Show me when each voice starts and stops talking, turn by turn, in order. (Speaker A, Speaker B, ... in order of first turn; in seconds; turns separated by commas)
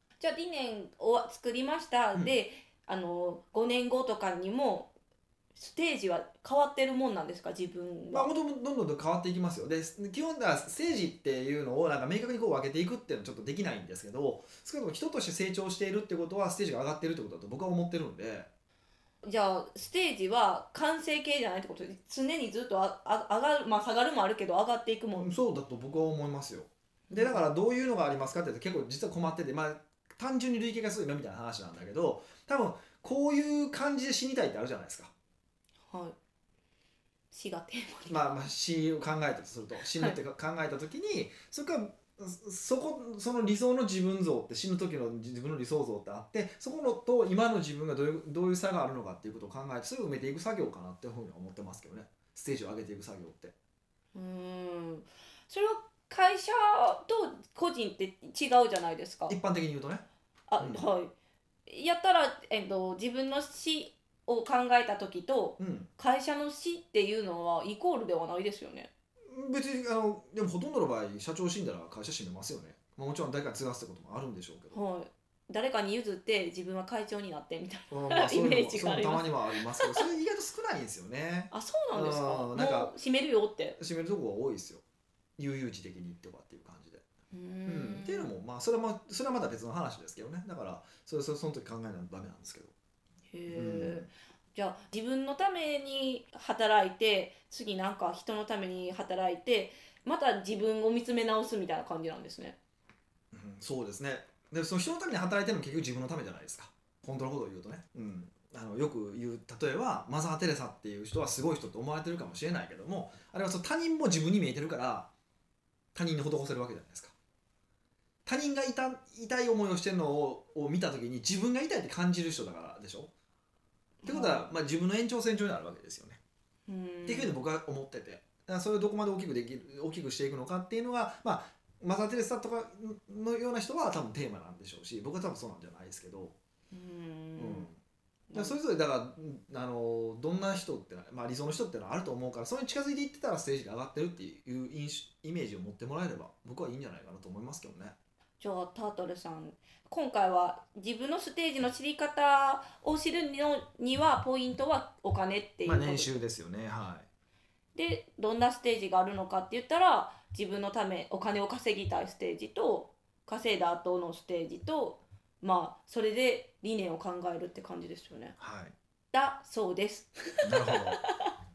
Speaker A: 0.2-4.9, Speaker A: 5.5-8.3, Speaker B: 8.1-18.5, Speaker A: 19.2-25.4, Speaker B: 25.2-35.1, Speaker A: 27.1-27.5, Speaker A: 35.9-36.2, Speaker A: 37.3-38.2, Speaker B: 38.1-53.5, Speaker A: 54.1-59.4, Speaker B: 59.3-60.0, Speaker A: 60.5-61.1, Speaker A: 61.7-68.9, Speaker B: 65.6-65.9, Speaker B: 69.3-74.8, Speaker A: 74.7-80.1, Speaker B: 77.9-82.9, Speaker A: 81.5-83.8, Speaker B: 83.8-84.8, Speaker B: 85.4-87.0, Speaker A: 87.3-88.4, Speaker B: 87.7-92.7, Speaker A: 93.3-102.6, Speaker B: 93.5-94.1, Speaker B: 103.3-115.1, Speaker B: 115.9-117.1, Speaker B: 118.2-123.1, Speaker A: 124.0-124.5, Speaker B: 124.0-126.2, Speaker A: 126.7-127.4, Speaker B: 127.0-136.3, Speaker A: 136.7-137.7, Speaker B: 137.4-137.8, Speaker A: 138.3-138.6, Speaker B: 138.3-147.9, Speaker A: 148.4-156.2, Speaker B: 155.6-157.1, Speaker A: 157.7-168.4, Speaker B: 168.4-168.7, Speaker A: 169.1-171.3, Speaker B: 170.4-171.0